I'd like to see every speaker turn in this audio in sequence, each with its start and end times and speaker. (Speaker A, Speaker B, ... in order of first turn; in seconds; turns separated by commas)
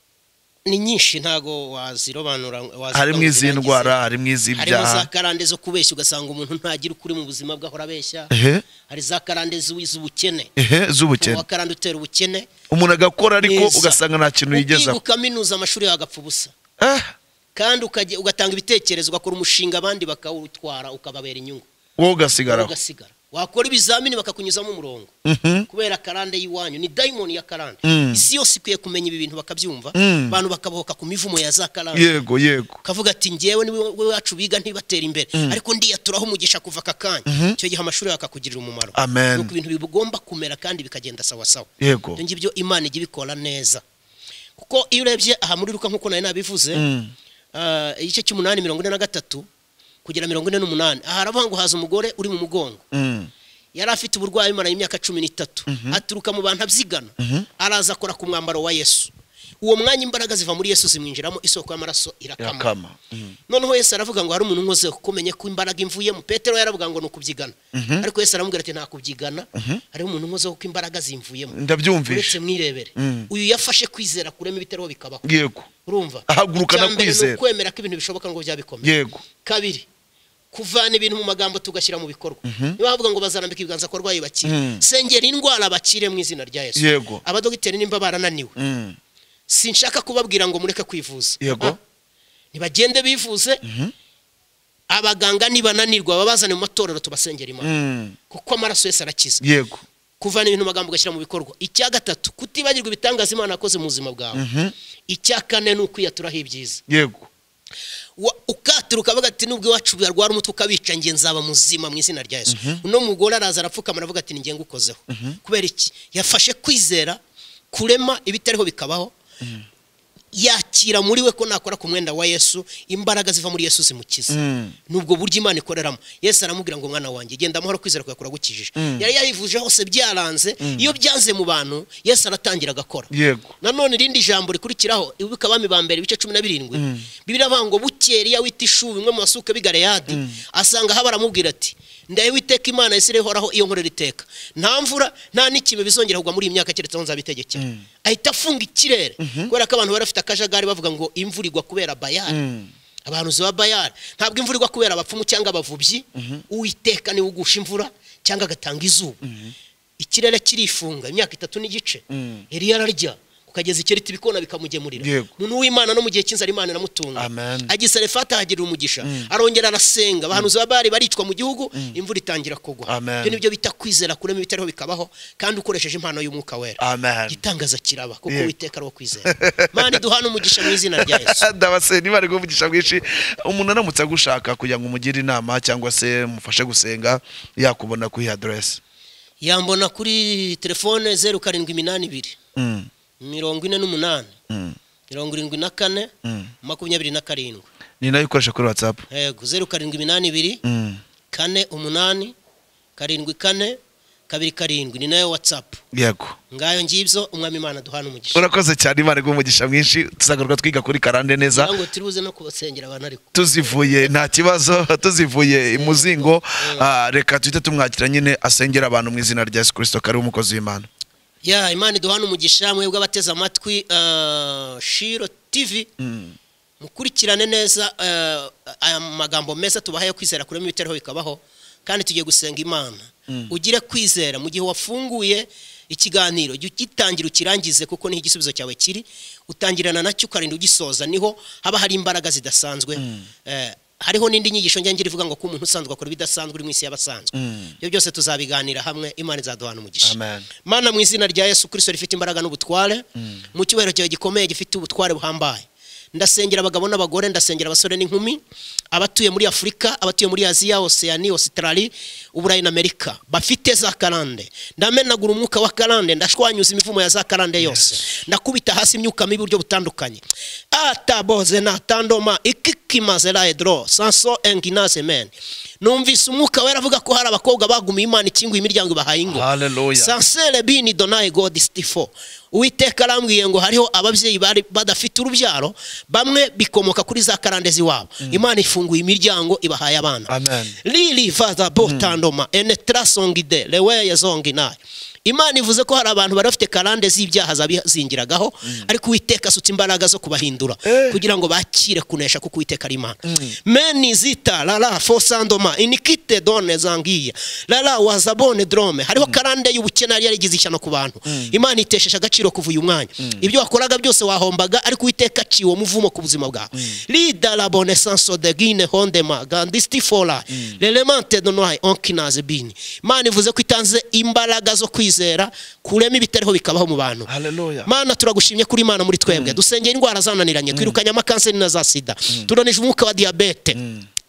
Speaker A: 0.7-4.0, Speaker B: 2.9-5.1, Speaker A: 4.5-8.3, Speaker B: 8.3-8.7, Speaker A: 8.9-10.5, Speaker B: 10.6-11.4, Speaker A: 11.2-12.5, Speaker B: 12.7-15.0, Speaker A: 13.4-14.0, Speaker A: 14.5-16.5, Speaker B: 16.8-17.1, Speaker A: 17.6-21.7, Speaker B: 22.0-22.7, Speaker A: 22.5-25.1, Speaker B: 25.2-25.7, Speaker A: 25.7-32.2, Speaker B: 27.9-28.2, Speaker B: 30.0-30.4, Speaker B: 31.9-32.8, Speaker A: 32.8-43.8, Speaker B: 37.3-37.6, Speaker B: 39.0-39.5, Speaker B: 41.8-42.2, Speaker A: 44.6-46.8, Speaker B: 46.7-47.1, Speaker A: 47.5-49.5, Speaker A: 50.0-52.8, Speaker B: 52.9-53.3, Speaker A: 53.8-59.1, Speaker B: 55.7-56.0, Speaker B: 57.2-57.5, Speaker A: 59.6-62.7, Speaker B: 62.4-63.4, Speaker A: 63.5-75.2, Speaker B: 67.7-68.0, Speaker B: 69.6-69.8, Speaker B: 71.5-72.4, Speaker B: 73.0-73.3, Speaker B: 75.2-75.7, Speaker A: 75.8-79.9, Speaker B: 76.3-77.4, Speaker B: 78.8-79.2, Speaker A: 80.5-88.5, Speaker B: 82.5-82.8, Speaker B: 84.5-84.8, Speaker B: 86.8-87.2, Speaker B: 88.6-89.0, Speaker A: 89.5-91.8, Speaker B: 91.4-91.8, Speaker A: 92.5-93.6, Speaker B: 93.6-93.9, Speaker A: 94.9-97.7, Speaker B: 97.6-98.2, Speaker A: 98.3-99.4, Speaker B: 99.4-99.8, Speaker A: 100.2-104.5, Speaker B: 104.3-104.7, Speaker A: 105.1-106.8, Speaker B: 106.9-107.3, Speaker A: 108.2-117.2, Speaker B: 112.5-112.8, Speaker B: 115.1-115.4, Speaker A: 117.7-119.1, Speaker A: 120.3-152.4, Speaker B: 124.3-124.8, Speaker B: 128.8-129.1, Speaker B: 130.6-130.9, Speaker B: 133.1-133.5, Speaker B: 136.7-137.1, Speaker B: 140.1-140.4, Speaker B: 147.6-147.8, Speaker B: 149.2-149.5, Speaker B: 152.3-152.7, Speaker A: 153.1-159.2, Speaker B: 156.2-156.4, Speaker B: 159.2-159.5, Speaker A: 160.0-181.5, Speaker B: 162.1-162.4, Speaker B: 165.0-165.3, Speaker B: 167.2-167.7, Speaker B: 169.0-169.3, Speaker B: 172.9-173.4, Speaker B: 176.8-177.4, Speaker B: 179.3-180.0, Speaker B: 180.6-188.8, Speaker A: 189.4-192.4, Speaker B: 192.6-192.9, Speaker A: 193.2-194.3, Speaker B: 194.5-194.8, Speaker A: 195.1-196.1, Speaker B: 196.2-196.5, Speaker A: 196.6-197.7, Speaker B: 198.0-199.1, Speaker A: 199.1-200.6, Speaker B: 200.6-201.0, Speaker A: 201.3-202.3, Speaker A: 203.0-205.8, Speaker B: 205.9-206.4, Speaker A: 206.5-208.5, Speaker B: 208.3-211.7, Speaker A: 211.5-213.5, Speaker B: 213.3-220.9, Speaker A: 215.7-216.9, Speaker A: 221.4-225.9, Speaker B: 226.0-226.4, Speaker A: 226.8-258.4, Speaker B: 243.0-243.3, Speaker B: 247.3-247.7, Speaker B: 250.0-250.5, Speaker B: 253.2-253.4, Speaker A: 258.9-290.3, Speaker B: 279.3-280.1, Speaker B: 290.3-290.8, Speaker A: 290.8-327.3, Speaker B: 291.8-292.2, Speaker B: 300.9-301.2, Speaker B: 303.3-303.6, Speaker B: 311.3-311.6, Speaker B: 320.5-320.8, Speaker B: 327.3-327.9, Speaker A: 327.9-333.8, Speaker B: 329.3-329.6, Speaker B: 333.8-334.1